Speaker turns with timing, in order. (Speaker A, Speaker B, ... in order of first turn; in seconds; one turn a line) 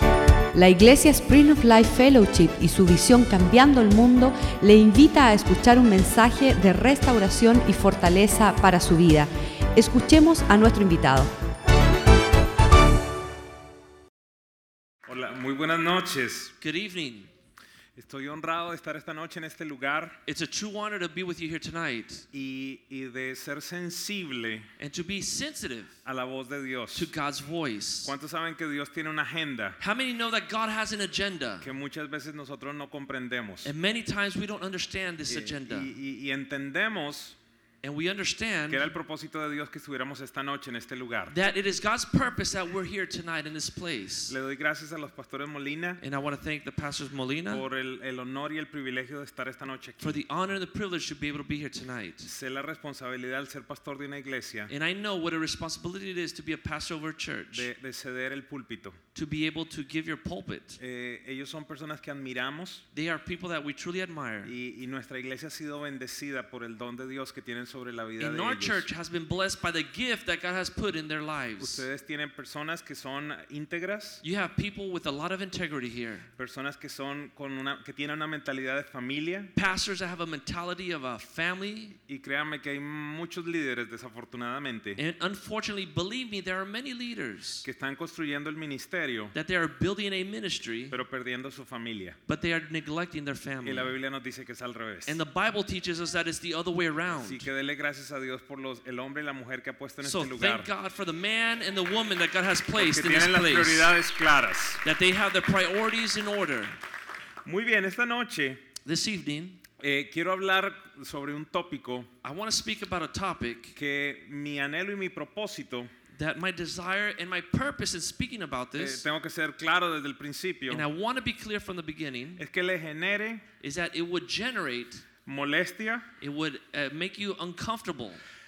Speaker A: 0.5-11.3
Speaker B: 15.0-16.5
Speaker C: 16.6-17.3
Speaker B: 17.9-20.2
Speaker C: 20.2-22.3
Speaker B: 22.3-24.7
Speaker C: 24.8-25.9
Speaker B: 26.0-27.1
Speaker C: 26.9-28.1
Speaker B: 28.0-29.8
Speaker C: 29.8-31.7
Speaker B: 31.6-33.7
Speaker C: 33.6-35.9
Speaker B: 35.3-37.4
Speaker C: 37.8-38.9
Speaker B: 38.7-41.3
Speaker C: 41.3-44.4
Speaker B: 44.3-46.0
Speaker C: 46.0-47.6
Speaker B: 47.5-50.2
Speaker C: 50.0-52.3
Speaker B: 52.2-54.7
Speaker C: 54.7-57.7
Speaker B: 57.5-59.0
Speaker C: 59.1-60.8
Speaker B: 60.8-62.8
Speaker C: 62.9-64.5
Speaker B: 64.4-68.8
Speaker C: 68.2-71.8
Speaker B: 71.6-74.2
Speaker C: 74.2-76.3
Speaker B: 76.4-79.5
Speaker C: 79.5-82.0
Speaker B: 82.1-85.0
Speaker C: 85.0-87.7
Speaker B: 87.6-89.3
Speaker C: 89.3-91.0
Speaker B: 90.9-92.2
Speaker C: 92.3-93.9
Speaker B: 93.6-95.2
Speaker C: 95.0-97.5
Speaker B: 97.1-100.7
Speaker C: 100.0-103.9
Speaker B: 102.8-104.8
Speaker C: 104.8-106.8
Speaker B: 107.4-108.6
Speaker C: 108.8-109.6
Speaker B: 109.8-112.1
Speaker C: 112.2-113.8
Speaker B: 113.8-115.9
Speaker C: 116.1-119.0
Speaker B: 118.8-120.8
Speaker C: 120.7-122.4
Speaker B: 122.4-123.4
Speaker C: 123.6-125.0
Speaker B: 125.2-126.1
Speaker C: 126.2-128.2